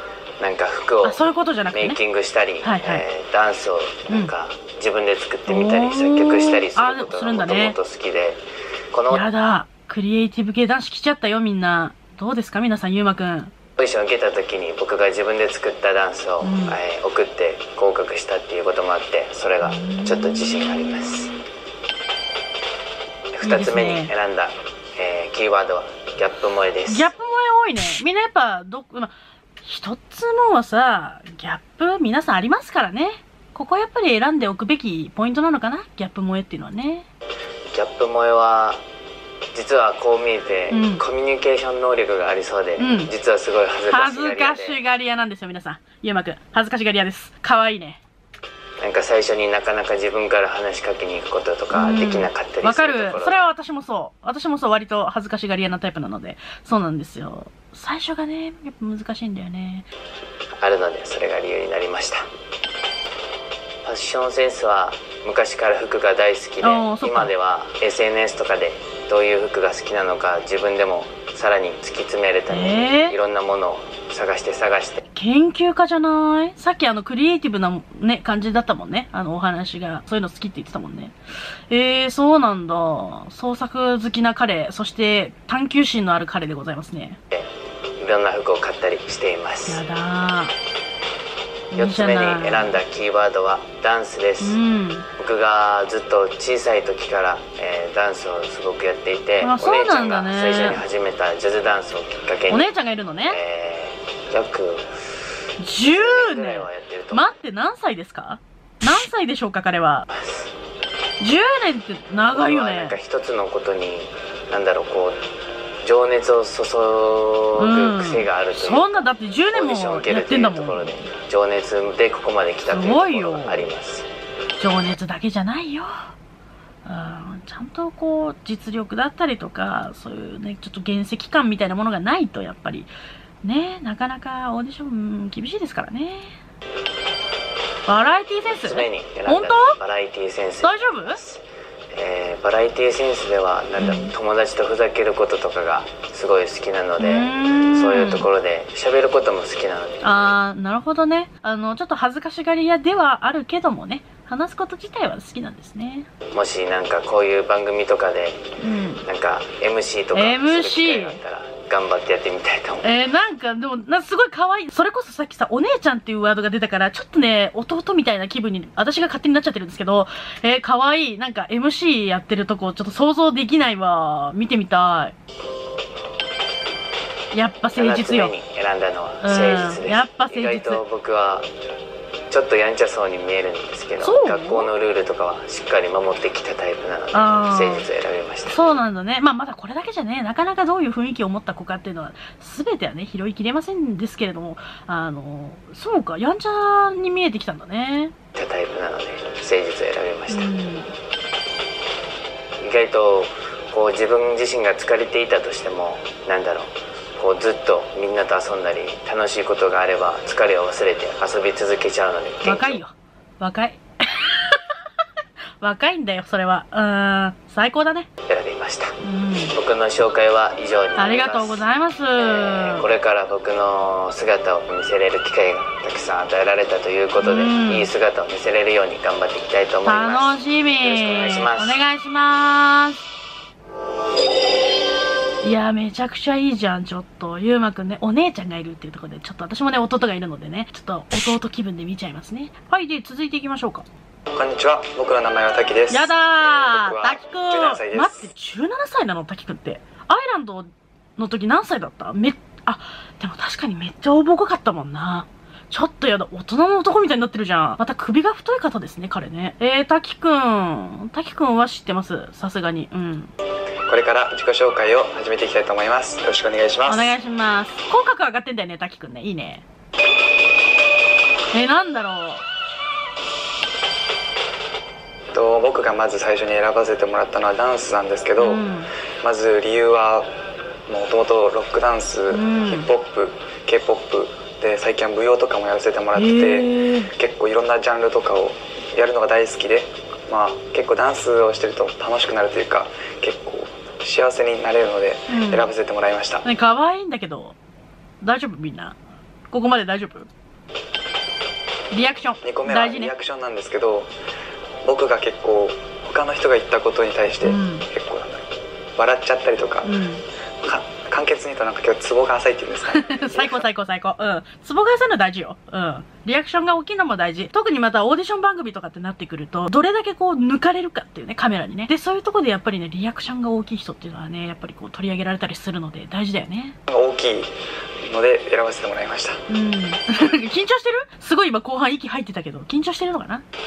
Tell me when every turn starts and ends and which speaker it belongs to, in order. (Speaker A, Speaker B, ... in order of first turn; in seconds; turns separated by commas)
Speaker A: 0.4-1.2, Speaker B: 1.0-2.0, Speaker A: 1.7-9.3, Speaker B: 2.6-3.0, Speaker B: 5.5-7.8, Speaker B: 9.1-13.5, Speaker A: 13.8-21.3, Speaker B: 16.4-16.8, Speaker B: 19.6-21.4, Speaker A: 23.4-27.1, Speaker B: 23.4-24.1, Speaker B: 26.9-37.1, Speaker A: 37.7-38.8, Speaker A: 39.5-44.8, Speaker B: 40.7-41.0, Speaker B: 42.8-43.1, Speaker B: 43.9-48.0, Speaker A: 48.8-53.4, Speaker B: 51.7-59.9, Speaker A: 60.6-62.3, Speaker A: 63.8-75.0, Speaker B: 66.6-67.3, Speaker B: 72.5-73.2, Speaker B: 75.1-81.2, Speaker B: 81.7-87.2, Speaker A: 88.0-89.8, Speaker B: 89.7-90.5, Speaker B: 91.7-92.8, Speaker A: 91.8-94.6, Speaker B: 94.4-95.1, Speaker A: 95.2-102.7, Speaker B: 99.4-100.8, Speaker B: 102.5-103.4, Speaker A: 103.3-105.0, Speaker B: 105.6-110.1, Speaker A: 105.8-107.3, Speaker A: 110.1-110.5, Speaker B: 111.2-113.0, Speaker A: 112.3-115.2, Speaker A: 115.8-124.1, Speaker B: 117.6-121.0, Speaker B: 122.7-123.7, Speaker B: 124.6-126.1, Speaker B: 126.8-132.9, Speaker B: 133.4-136.4, Speaker B: 137.9-139.8, Speaker A: 138.4-141.4, Speaker B: 140.6-141.2, Speaker A: 141.9-150.0, Speaker B: 143.8-144.1, Speaker B: 147.0-148.3, Speaker B: 150.0-156.1, Speaker A: 156.3-158.4, Speaker B: 158.6-159.0, Speaker A: 159.1-162.9, Speaker B: 160.1-161.2, Speaker B: 162.8-175.2, Speaker B: 177.3-178.3, Speaker A: 177.7-181.5, Speaker B: 179.2-180.8, Speaker A: 182.3-188.6, Speaker B: 184.0-184.7, Speaker B: 187.1-187.9, Speaker B: 188.5-198.1, Speaker A: 198.3-200.5, Speaker B: 200.3-200.9, Speaker A: 202.6-212.8, Speaker B: 212.4-214.6, Speaker B: 215.6-218.1, Speaker A: 218.3-219.0, Speaker B: 219.0-219.6, Speaker A: 219.5-221.7, Speaker B: 221.0-222.9, Speaker A: 222.2-231.8, Speaker B: 227.2-227.9, Speaker B: 229.8-233.1, Speaker B: 235.4-243.9, Speaker C: 244.3-248.3, Speaker B: 245.9-263.3, Speaker C: 263.9-267.1, Speaker B: 266.9-269.6, Speaker B: 271.5-272.4, Speaker C: 275.3-278.6, Speaker B: 278.4-278.9, Speaker C: 279.2-280.3, Speaker C: 280.9-296.4, Speaker B: 282.3-282.9, Speaker B: 286.1-287.1, Speaker B: 295.3-295.7, Speaker B: 296.4-297.6, Speaker B: 298.2-299.0, Speaker B: 299.5-300.3, Speaker B: 301.9-303.1, Speaker C: 302.4-304.1, Speaker C: 304.9-309.9, Speaker B: 307.4-307.9, Speaker B: 309.8-310.2, Speaker C: 310.6-313.7, Speaker B: 312.9-326.8, Speaker C: 326.9-329.4, Speaker B: 329.5-333.4